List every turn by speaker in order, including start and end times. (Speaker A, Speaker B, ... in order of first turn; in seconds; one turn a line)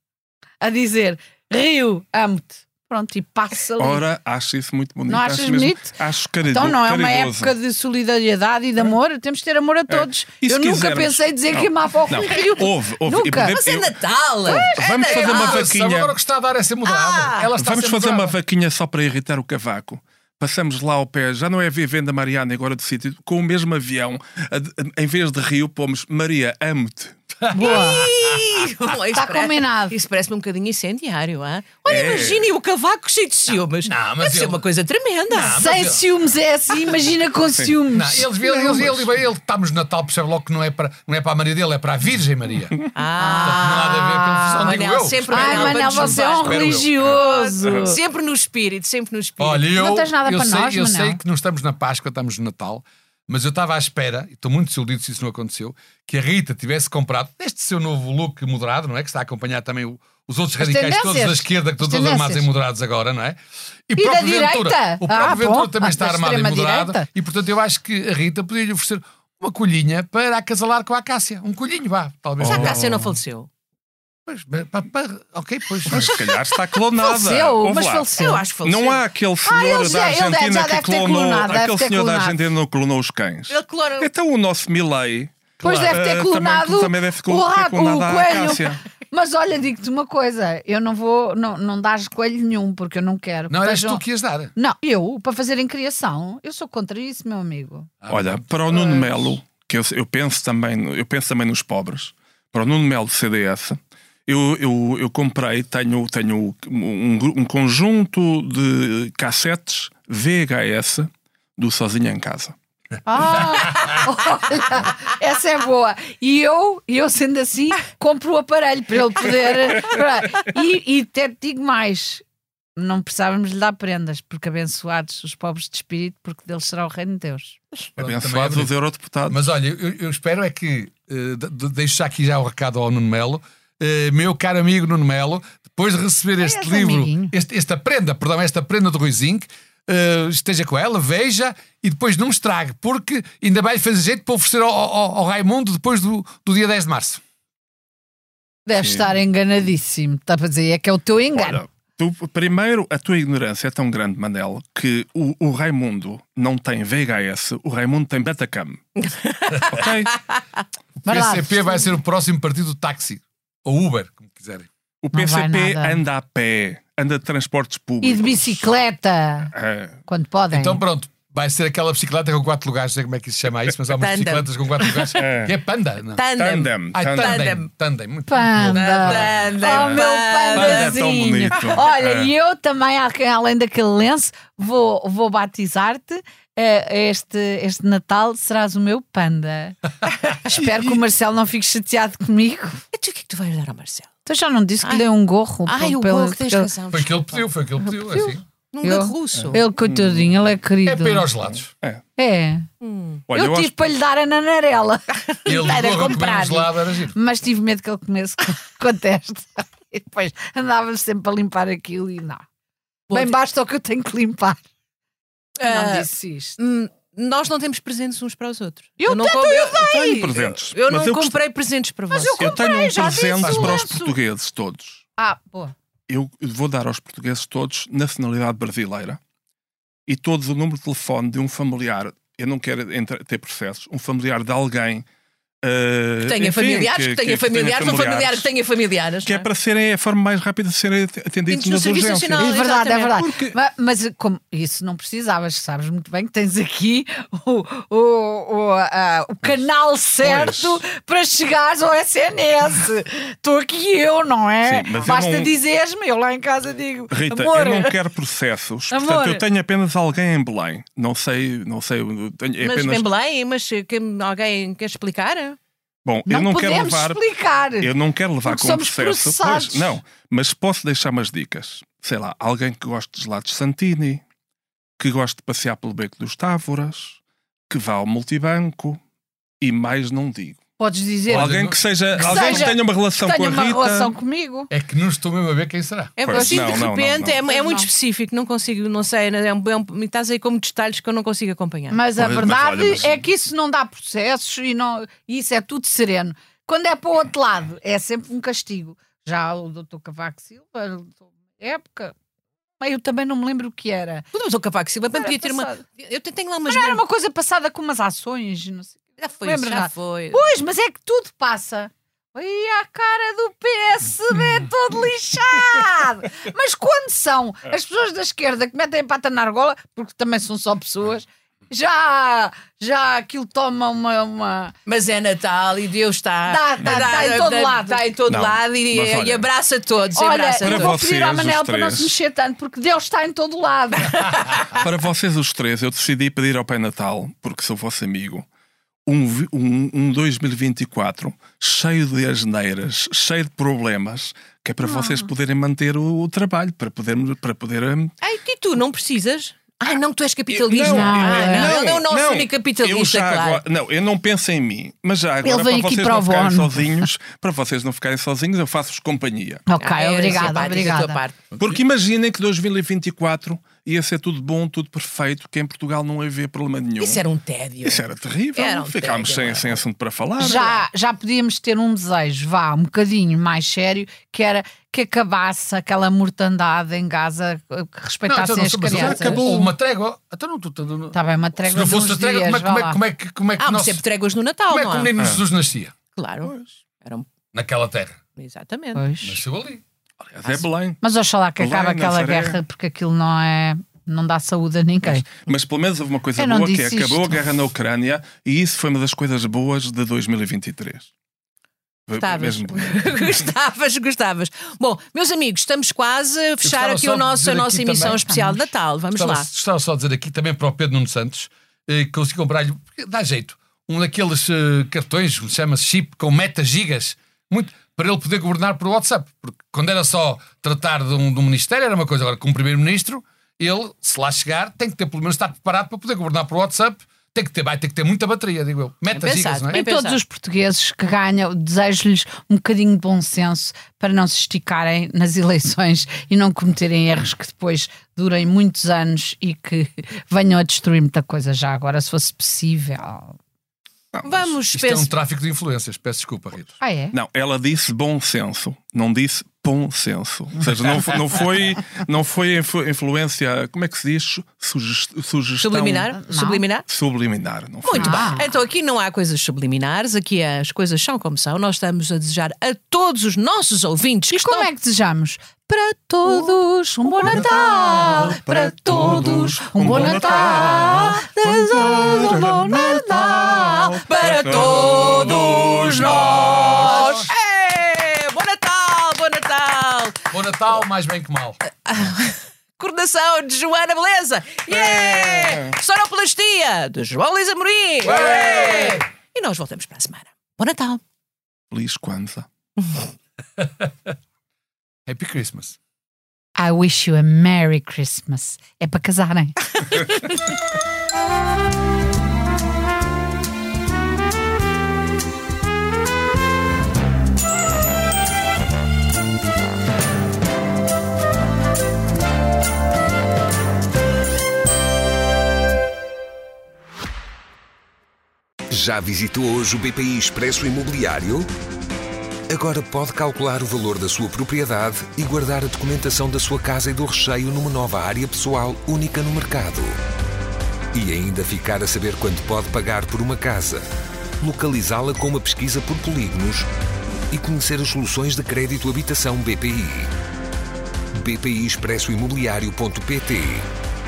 Speaker A: 0.6-4.0
Speaker B: 3.8-7.5
Speaker A: 5.1-13.6
Speaker B: 9.9-16.1
Speaker C: 13.3-15.7
Speaker D: 15.0-18.3
Speaker C: 16.8-17.5
Speaker B: 17.6-27.2
Speaker D: 27.4-28.5
Speaker A: 27.5-28.1
Speaker C: 27.5-35.6
Speaker A: 29.1-29.9
Speaker B: 31.9-32.5
Speaker D: 33.8-34.6
Speaker D: 35.3-36.0
Speaker A: 35.5-38.3
Speaker D: 37.9-42.8
Speaker B: 38.4-39.1
Speaker C: 42.9-49.7
Speaker A: 43.2-44.7
Speaker D: 43.4-47.2
Speaker A: 45.3-48.0
Speaker B: 47.6-47.9
Speaker D: 49.4-72.8
Speaker A: 49.7-51.2
Speaker A: 60.6-62.5
Speaker A: 64.0-67.1
Speaker B: 72.4-73.1
Speaker C: 72.4-73.5
Speaker D: 74.3-76.2
Speaker B: 75.8-88.8
Speaker A: 76.9-78.4
Speaker C: 78.0-79.0
Speaker A: 79.4-82.4
Speaker C: 83.5-84.1
Speaker A: 85.6-94.0
Speaker D: 93.5-94.5
Speaker A: 94.5-97.9
Speaker D: 98.0-99.1
Speaker B: 98.1-112.5
Speaker A: 113.0-122.2
Speaker A: 122.8-127.6
Speaker B: 127.9-129.4
Speaker D: 128.0-128.7
Speaker D: 129.3-147.2
Speaker A: 136.4-137.3
Speaker A: 148.7-151.6
Speaker B: 148.8-149.1
Speaker B: 151.3-158.8
Speaker C: 158.9-160.3
Speaker B: 159.7-160.1
Speaker A: 161.1-161.9
Speaker D: 161.1-164.7
Speaker B: 165.0-168.7
Speaker A: 165.1-166.0
Speaker A: 168.0-169.5
Speaker B: 169.5-170.0
Speaker A: 170.1-170.8
Speaker D: 170.5-176.2
Speaker C: 173.9-175.3
Speaker B: 175.2-175.5
Speaker C: 176.1-177.7
Speaker B: 176.3-177.4
Speaker D: 176.9-179.4
Speaker A: 178.3-189.8
Speaker C: 178.7-181.0
Speaker B: 179.7-180.0
Speaker B: 180.5-182.3
Speaker A: 190.3-192.8
Speaker B: 190.5-191.0
Speaker C: 192.9-194.1
Speaker A: 194.2-196.7
Speaker C: 195.7-199.6
Speaker D: 196.9-198.4
Speaker A: 198.8-201.3
Speaker B: 199.3-200.4
Speaker D: 200.8-201.7
Speaker B: 201.7-202.0
Speaker A: 202.2-202.7
Speaker C: 202.8-203.2
Speaker B: 203.3-203.8
Speaker A: 203.3-212.4
Speaker D: 205.4-207.2
Speaker A: 213.1-214.6
Speaker C: 215.6-222.6
Speaker A: 215.7-216.6
Speaker A: 219.0-220.3
Speaker B: 219.7-221.4
Speaker A: 222.1-224.2
Speaker B: 222.4-225.0
Speaker D: 223.4-223.8
Speaker A: 225.2-225.7
Speaker B: 226.1-229.2
Speaker B: 230.1-235.1
Speaker B: 235.6-238.5
Speaker C: 236.2-239.4
Speaker B: 239.2-242.5
Speaker C: 241.5-243.2
Speaker A: 242.4-258.0
Speaker B: 243.2-243.6
Speaker B: 250.2-250.8
Speaker B: 254.7-255.5
Speaker B: 257.1-263.1
Speaker A: 258.9-259.4
Speaker C: 262.6-265.6
Speaker B: 266.0-267.2
Speaker A: 266.3-267.9
Speaker B: 267.8-274.2
Speaker A: 268.4-270.0
Speaker B: 275.0-279.0
Speaker B: 279.6-280.6
Speaker A: 280.8-281.6
Speaker B: 281.3-284.1
Speaker D: 281.3-282.7
Speaker A: 282.1-284.7
Speaker D: 284.7-286.1
Speaker C: 286.1-292.0
Speaker B: 286.2-287.4
Speaker A: 286.2-287.9
Speaker A: 291.9-302.1
Speaker B: 292.1-293.2
Speaker A: 302.8-304.3
Speaker C: 304.3-307.0
Speaker A: 305.1-305.8
Speaker A: 306.7-324.7
Speaker C: 309.2-310.4
Speaker C: 324.9-331.0
Speaker A: 326.5-328.1
Speaker B: 326.8-327.2
Speaker B: 328.3-329.5
Speaker A: 330.1-334.3
Speaker B: 330.6-332.1
Speaker C: 334.0-334.8
Speaker B: 334.7-338.4
Speaker B: 339.1-348.1
Speaker A: 344.8-345.3
Speaker C: 348.2-353.6
Speaker B: 350.5-359.6
Speaker A: 350.8-351.8
Speaker A: 355.4-357.1
Speaker A: 359.7-361.2
Speaker C: 359.8-361.4
Speaker B: 361.6-367.2
Speaker C: 367.0-369.8
Speaker B: 367.8-370.8
Speaker A: 370.4-379.5
Speaker D: 378.2-381.1
Speaker B: 378.9-379.7
Speaker A: 381.1-383.0
Speaker D: 381.7-384.0
Speaker C: 383.6-385.1
Speaker D: 384.7-385.9
Speaker B: 385.2-385.4
Speaker C: 386.1-387.2
Speaker B: 386.4-386.7
Speaker D: 387.5-388.2
Speaker C: 388.4-389.1
Speaker A: 388.9-389.4
Speaker D: 389.2-389.8
Speaker B: 390.2-391.0
Speaker A: 391.0-395.2
Speaker B: 391.6-392.6
Speaker B: 395.2-401.1
Speaker A: 396.4-397.4
Speaker B: 402.1-403.4
Speaker C: 402.2-409.5
Speaker D: 406.6-408.3
Speaker A: 408.3-408.6
Speaker D: 409.1-429.8
Speaker C: 429.1-430.2
Speaker A: 429.7-443.4
Speaker B: 444.1-444.4
Speaker C: 444.2-445.1
Speaker D: 444.7-446.7
Speaker A: 446.8-447.1
Speaker B: 447.1-456.1
Speaker C: 455.6-456.9
Speaker A: 456.1-456.6
Speaker B: 456.9-458.4
Speaker C: 457.8-464.7
Speaker A: 457.9-458.4
Speaker A: 464.3-476.8
Speaker C: 466.2-468.4
Speaker B: 467.2-477.1
Speaker C: 468.9-480.2
Speaker D: 476.7-477.3
Speaker D: 480.3-481.6
Speaker C: 481.9-491.0
Speaker B: 484.7-485.7
Speaker D: 488.0-489.0
Speaker B: 491.7-492.5
Speaker D: 495.1-495.8
Speaker A: 496.6-499.6
Speaker E: 518.7-521.5
Speaker E: 522.5-529.9
Speaker E: 530.9-533.9
Speaker E: 534.4-536.7
Speaker E: 537.3-540.1
Speaker E: 541.1-543.7